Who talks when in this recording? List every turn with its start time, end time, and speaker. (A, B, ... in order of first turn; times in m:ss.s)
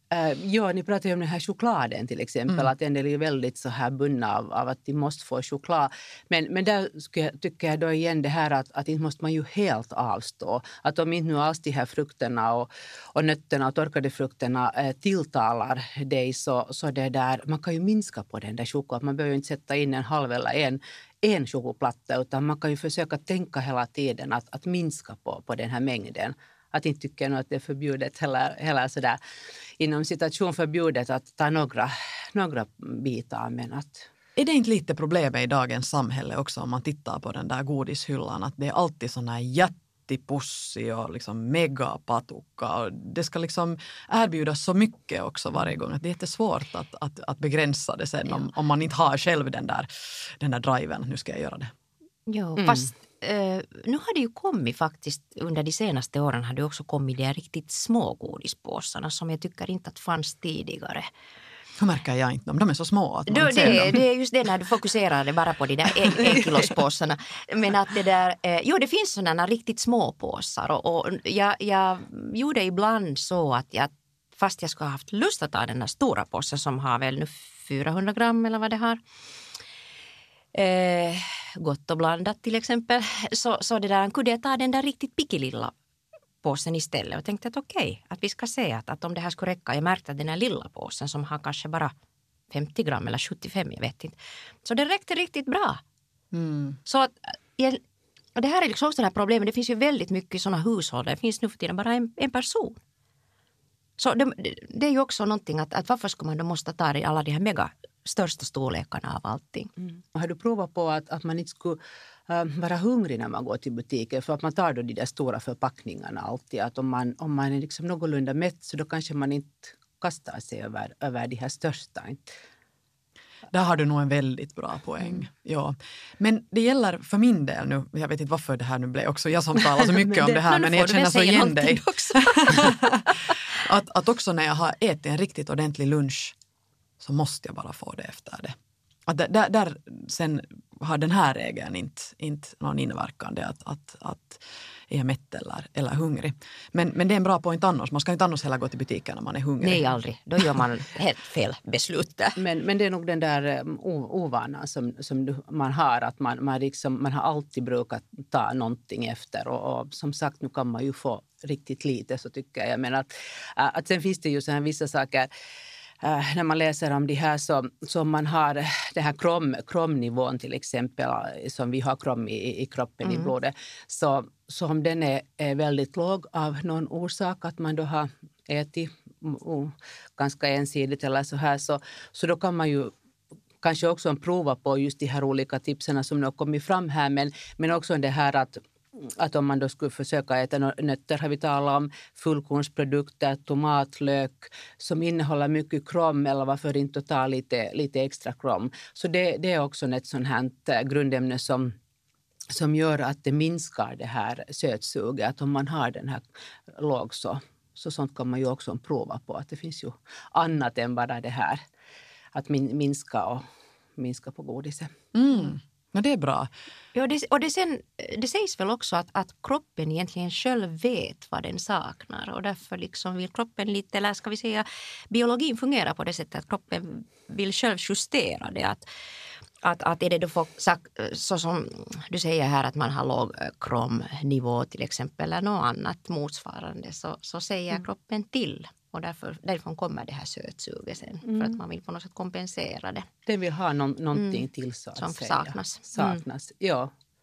0:00.1-0:29.2 A
0:29.8-0:34.1 A
0:34.4-0:51.7 B
0:52.3-1:01.1 C
1:01.8-1:04.0 B
1:03.3-1:19.0 C
1:20.5-1:25.7 C
1:26.4-1:31.9 C
1:32.5-1:35.8 C
1:36.3-1:36.8 B
1:36.8-1:37.8 C
1:38.4-1:42.8 C
1:44.0-1:49.7 C
1:50.1-2:02.3 A
2:03.5-2:13.0 B
2:09.8-2:13.4 C
2:13.6-2:16.3 B
2:17.0-2:18.5 B
2:19.1-2:29.9 B
2:29.6-2:32.4 C
2:32.4-2:45.3 A
2:46.0-3:02.9 A
2:53.0-2:53.3 C
3:03.6-3:21.7 A
3:22.5-3:26.2 A
3:26.7-3:31.6 A
3:32.3-3:33.4 A
3:34.0-3:34.9 A
3:35.1-3:36.5 B
3:36.9-3:48.8 C
3:49.6-4:03.1 C
4:01.3-4:01.5 A
4:03.3-4:06.9 A
4:04.2-4:04.4 C
4:05.0-4:06.2 C